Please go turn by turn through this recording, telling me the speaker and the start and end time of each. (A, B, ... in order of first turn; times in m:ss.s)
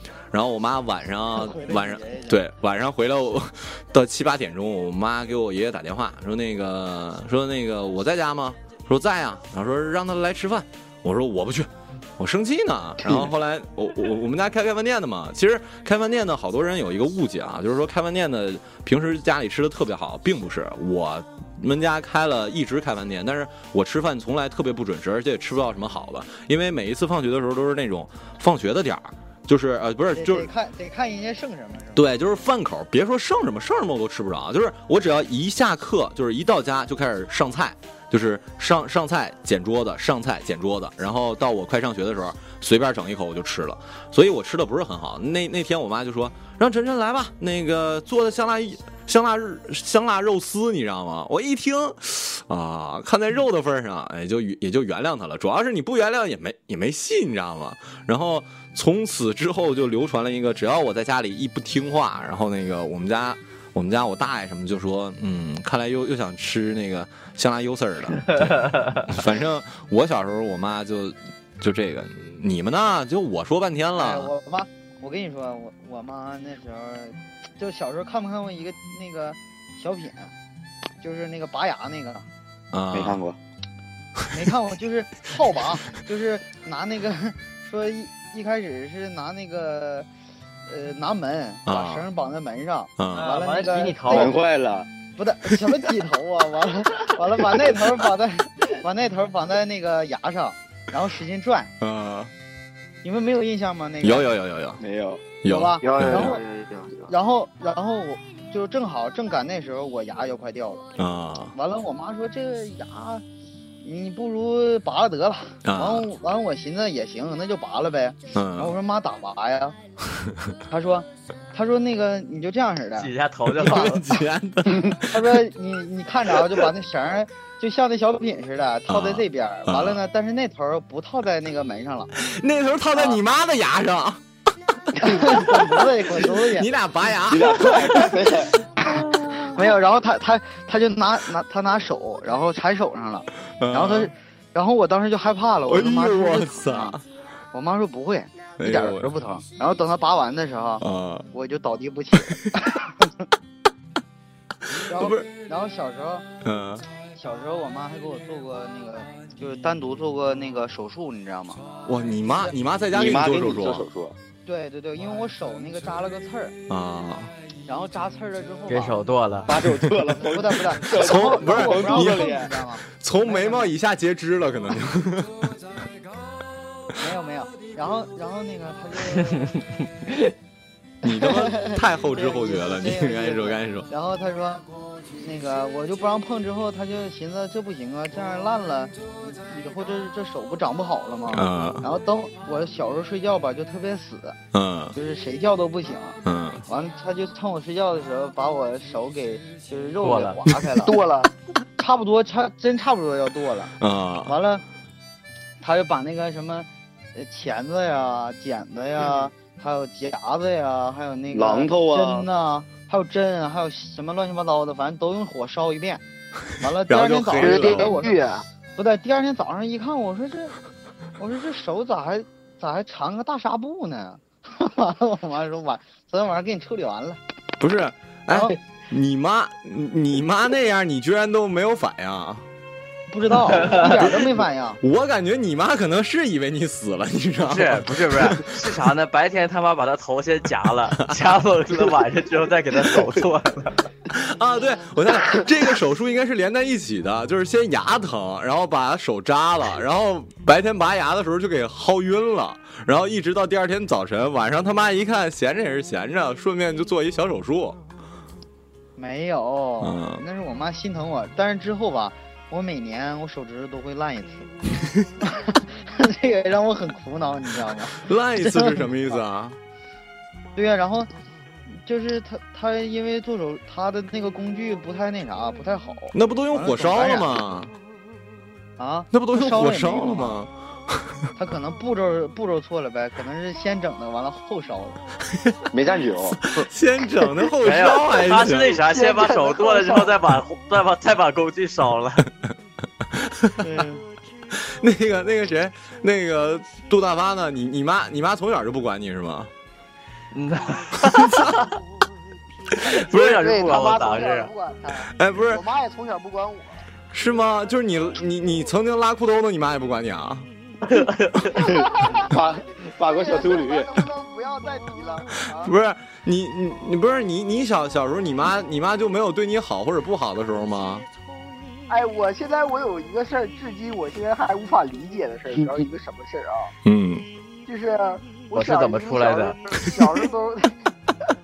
0:00.3-0:30.5 A
0:01.3-0:02.4 B
0:30.2-0:32.0 B
0:32.0-1:14.3 A
1:08.6-1:09.0 C
1:14.0-1:20.3 B
1:21.0-1:22.3 B
1:22.7-1:23.2 A
1:22.9-1:23.4 D
1:24.3-1:30.1 B
1:30.7-1:34.3 B
1:31.7-1:32.0 A
1:33.0-1:33.4 A
1:33.1-1:34.3 C
1:34.1-1:34.9 D
1:35.2-1:41.7 B
1:41.8-1:42.3 A
1:43.0-1:44.3 B
1:44.0-1:44.8 A
1:44.8-1:45.2 D
1:45.4-1:46.4 A
1:45.5-1:46.4 B
1:46.0-1:46.2 E
1:47.1-1:50.9 B
1:51.0-1:51.5 A
1:51.5-1:53.2 B
1:53.8-1:59.8 B
1:55.6-1:56.1 A
1:58.3-1:58.7 A
2:00.7-2:03.1 B
2:03.0-2:04.1 C
2:03.6-2:05.4 A
2:05.0-2:12.1 B
2:08.9-2:10.0 A
2:12.2-2:14.2 A
2:12.9-2:13.2 B
2:15.0-2:16.7 B
2:15.2-2:15.7 A
2:16.4-2:18.2 A
2:17.3-2:18.5 D
2:19.4-2:27.0 B
2:23.6-2:24.1 A
2:25.7-2:27.0 A
2:27.5-2:33.1 B
2:28.6-2:29.1 A
2:30.8-2:31.3 A
2:34.8-2:35.3 A
2:34.9-2:36.3 B
2:36.4-2:36.8 A
2:37.1-2:41.6 B
2:41.9-2:43.9 A
2:42.9-2:44.2 D
2:44.5-2:46.6 B
2:46.7-2:47.3 A
2:47.7-2:49.0 B
2:48.7-2:49.5 C
2:49.5-2:52.5 D
2:50.2-2:53.7 B
2:50.9-2:52.4 A
2:53.0-2:55.5 A
2:57.0-2:59.5 B
3:01.0-3:03.9 A
3:01.1-3:04.6 B
3:05.2-3:14.4 B
3:11.3-3:11.8 A
3:14.5-3:15.0 A
3:15.0-3:21.0 B
3:16.2-3:16.6 A
3:20.0-3:20.4 C
3:20.8-3:21.3 E
3:21.8-3:23.7 B
3:23.8-3:24.4 A
3:24.3-3:24.6 B
3:25.6-3:36.0 B
3:31.3-3:32.3 D
3:36.6-3:38.2 B
3:36.9-3:38.0 A
3:37.4-3:38.4 E
3:38.8-3:40.6 B
3:41.2-3:47.2 B
3:47.6-3:52.4 A
3:48.3-3:48.6 B
3:53.1-3:54.8 B
3:53.6-3:54.0 C
3:53.8-3:54.3 A
3:54.8-3:58.7 A
3:57.5-4:03.7 C
4:04.1-4:17.8 A
4:19.0-4:24.5 B
4:19.8-4:20.2 A
4:25.2-4:29.2 B
4:28.0-4:29.6 A
4:30.6-4:31.1 B
4:31.7-4:37.3 B
4:36.1-4:37.7 A
4:38.8-4:40.4 B
4:39.1-4:40.9 A
4:41.4-4:45.0 B
4:45.7-4:46.4 D
4:46.4-4:48.8 A
4:47.6-4:52.3 C
4:48.8-4:50.2 E
4:53.2-4:53.6 A
4:53.6-4:54.0 B
4:54.6-4:59.5 A
5:00.3-5:01.6 C
5:01.0-5:01.6 A
5:02.9-5:03.4 A
5:03.0-5:04.5 C
5:03.1-5:06.8 E
5:05.2-5:05.6 A
5:07.1-5:10.5 A
5:10.9-5:11.5 C
5:11.5-5:12.3 E
5:11.6-5:13.9 D
5:13.1-5:15.7 E
5:15.6-5:21.1 A
5:21.9-5:26.7 E
5:26.8-5:27.3 A
5:27.7-5:30.8 E
5:28.5-5:29.6 C